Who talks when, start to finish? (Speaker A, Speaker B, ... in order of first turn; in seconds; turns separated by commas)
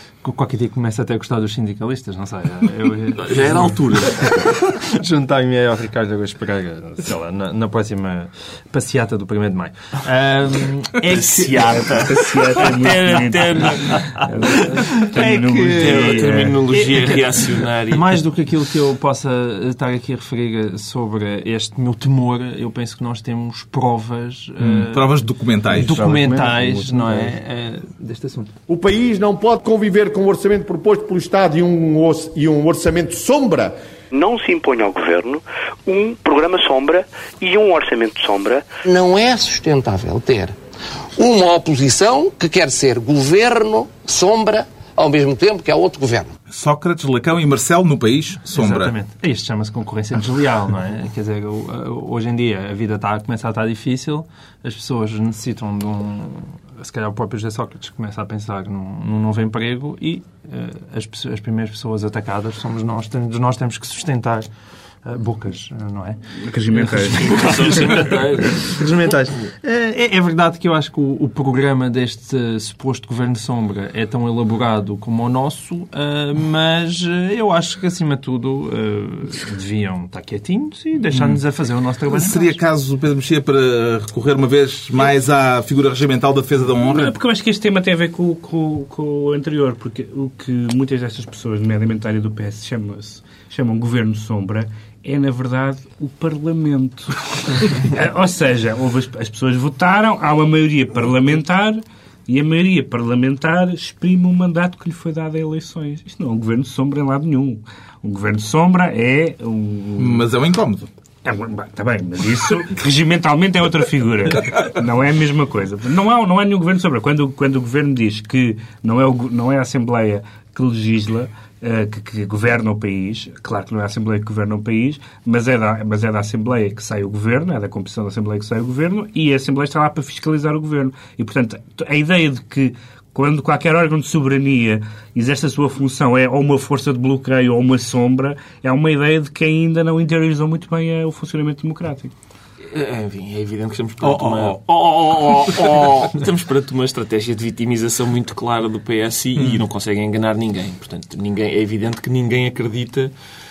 Speaker A: 0.2-11.9, Speaker B: 3.2-4.7, Speaker B: 11.1-14.1, Speaker C: 11.7-16.6, Speaker A: 13.9-25.1, Speaker B: 15.8-18.2, Speaker D: 24.6-26.0, Speaker C: 25.7-27.4, Speaker A: 25.7-28.6, Speaker E: 28.7-33.7, Speaker F: 34.1-38.6, Speaker G: 38.9-40.5, Speaker G: 41.2-46.3, Speaker D: 46.5-48.9, Speaker A: 48.5-64.5, Speaker A: 65.0-66.2, Speaker C: 66.4-68.0, Speaker A: 66.9-82.6, Speaker B: 67.2-68.8, Speaker D: 81.1-81.4, Speaker D: 82.1-87.2, Speaker C: 86.8-110.2, Speaker D: 110.0-110.9, Speaker C: 111.2-142.1, Speaker B: 142.7-153.1, Speaker D: 144.0-144.6